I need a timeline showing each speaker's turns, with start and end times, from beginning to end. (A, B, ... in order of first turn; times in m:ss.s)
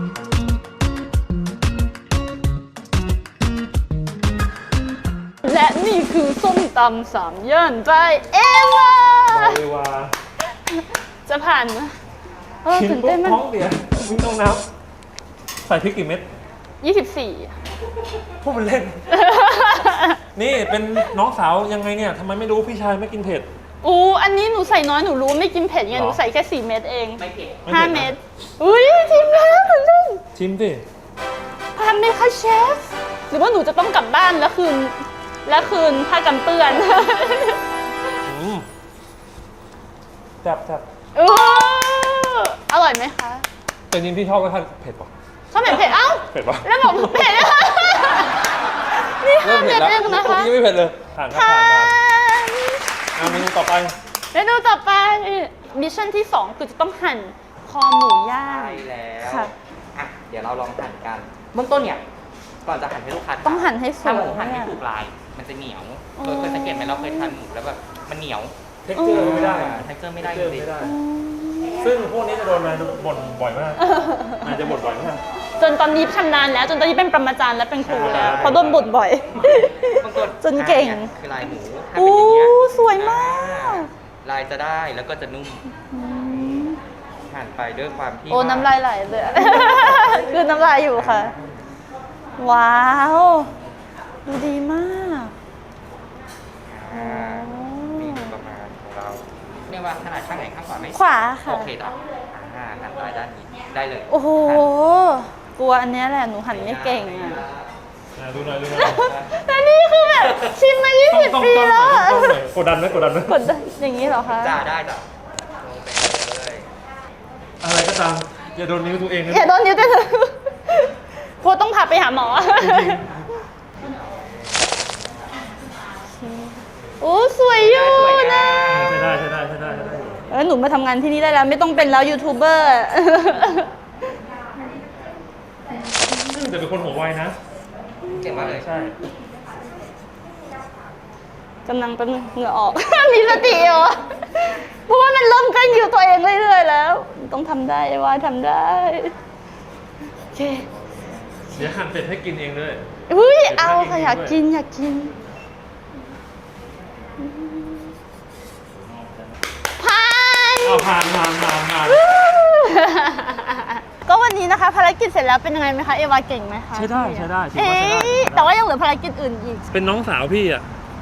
0:05.4-0:09.6 A
0:09.3-0:10.1 B
0:11.2-0:12.0 A
0:12.6-0:13.4 A
0:12.6-0:14.6 B
0:15.6-0:16.2 B
0:16.8-0:17.5 A
0:18.4-0:19.0 B
0:19.1-0:20.2 A
0:20.3-0:23.5 B
0:23.8-0:30.2 A
0:25.9-0:26.2 B
0:27.2-0:27.7 C
0:27.6-0:28.2 B
0:30.3-0:30.8 B
0:31.7-0:37.6 A
0:38.2-0:38.7 B
0:40.4-0:40.8 B
0:41.1-0:43.4 A
0:43.9-0:45.1 B
0:45.5-0:48.4 A
0:45.6-0:47.7 B
0:49.0-0:50.6 A
0:49.4-0:52.0 B
0:51.3-0:53.5 A
0:53.1-0:54.0 B
0:54.3-0:59.5 A
0:58.3-1:02.0 C
1:02.6-1:08.5 C
1:03.4-1:04.8 A
1:06.2-1:07.3 A
1:08.8-1:11.0 B
1:09.0-1:09.4 A
1:09.1-1:10.8 C
1:10.8-1:11.8 A
1:11.7-1:13.8 B
1:13.8-1:14.5 A
1:14.3-1:15.2 B
1:15.6-1:21.1 A
1:17.8-1:18.9 B
1:17.9-1:18.6 C
1:19.5-1:25.7 C
1:21.9-1:23.9 A
1:25.8-1:26.8 A
1:26.3-1:26.7 C
1:27.3-1:28.8 C
1:28.3-1:31.3 A
1:29.3-1:31.4 C
1:32.4-1:33.5 A
1:34.2-1:35.3 A
1:36.6-1:44.7 C
1:36.9-1:38.3 A
1:40.9-1:41.7 A
1:44.1-1:47.4 A
1:46.4-1:47.7 C
1:48.1-1:49.1 B
1:48.7-1:52.4 A
1:48.8-1:49.3 C
1:51.1-1:53.4 B
1:53.1-1:54.6 A
1:54.0-1:56.7 C
1:57.6-1:59.5 B
1:59.3-2:03.2 A
2:02.6-2:03.3 B
2:06.2-2:08.6 A
2:07.5-2:09.1 C
2:08.7-2:10.2 B
2:10.3-2:13.7 A
2:16.3-2:17.3 B
2:18.1-2:18.7 C
2:18.2-2:18.9 B
2:21.6-2:29.1 A
2:30.3-2:30.7 A
2:31.5-2:32.8 B
2:33.1-2:35.2 A
2:33.5-2:34.4 B
2:37.2-2:37.9 A
2:39.8-2:41.0 A
2:40.6-2:42.0 B
2:41.8-2:49.7 A
2:46.7-2:48.5 B
2:49.7-2:50.7 B